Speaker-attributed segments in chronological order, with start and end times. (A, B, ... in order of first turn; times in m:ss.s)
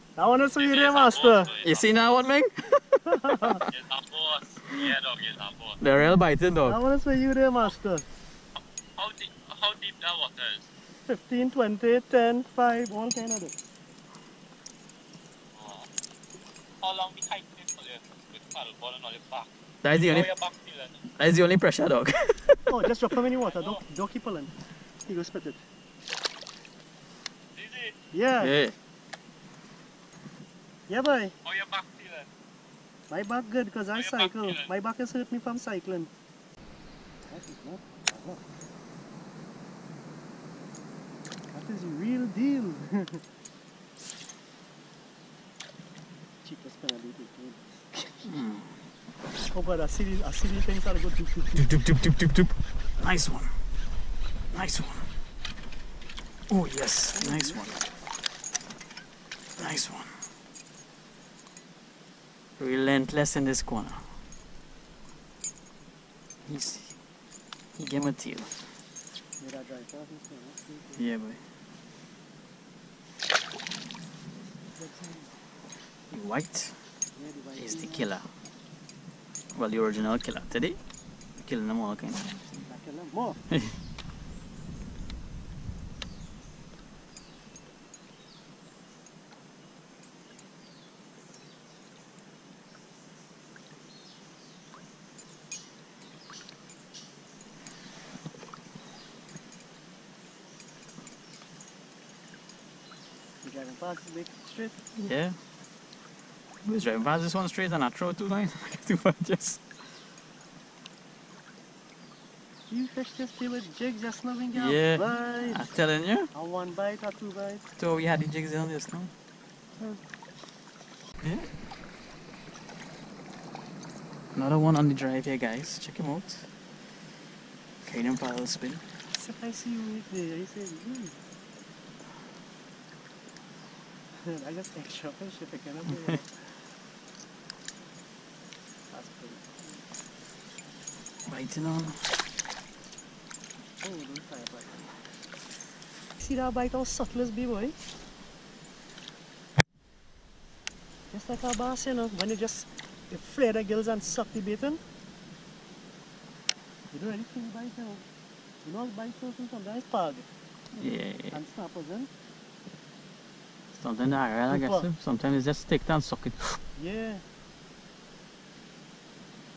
0:00.2-0:01.5 A
0:00.6-0:01.9 B
0:01.6-0:03.6 C
0:03.0-0:03.6 A
0:03.6-0:05.8 B
0:05.8-0:06.8 C
0:06.6-0:08.0 A
0:09.0-0:10.7 B
0:11.1-0:13.6 A
0:15.5-0:15.9 B
0:16.8-0:21.0 B
0:19.8-0:20.3 C
0:21.1-0:22.6 C
0:22.7-0:24.5 A
0:23.4-0:23.8 B
0:25.0-0:25.6 A
0:27.5-0:28.0 B
0:28.1-0:28.5 A
0:28.4-0:28.7 C
0:30.9-0:31.4 A
0:31.4-0:32.3 B
0:33.1-0:36.1 A
0:33.9-0:34.7 B
0:37.3-0:38.5 A
0:41.5-0:43.2 A
0:46.4-0:47.9 A
0:48.2-0:48.7 C
0:49.5-0:51.8 A
0:51.6-0:53.5 C
0:54.5-0:55.1 C
0:56.5-0:57.8 C
0:57.1-0:57.7 A
0:59.6-1:00.2 C
1:02.6-1:04.0 C
1:06.4-1:07.0 C
1:07.8-1:08.7 C
1:09.4-1:11.1 A
1:11.0-1:11.4 C
1:14.7-1:15.4 A
1:16.1-1:16.8 C
1:17.1-1:18.2 A
1:17.6-1:18.3 C
1:19.5-1:20.8 C
1:21.4-1:22.5 C
1:22.6-1:23.4 A
1:23.5-1:23.7 C
1:43.4-1:44.8 A
1:44.9-1:45.4 C
1:46.6-1:49.6 C
1:52.7-1:55.7 A
1:54.5-1:56.3 C
1:56.3-1:57.6 A
1:57.8-1:59.1 C
2:01.2-2:01.5 C
2:04.3-2:06.5 C
2:07.8-2:08.9 C
2:09.1-2:11.2 A
2:14.1-2:16.5 A
2:18.9-2:19.8 A
2:21.2-2:22.0 C
2:23.8-2:24.9 A
2:26.2-2:27.8 A
2:31.1-2:34.8 A
2:36.9-2:38.0 A
2:38.6-2:40.3 A
2:40.7-2:41.4 C
2:41.3-2:42.1 A
2:43.7-2:46.6 C
2:44.5-2:44.9 A
2:46.8-2:47.2 A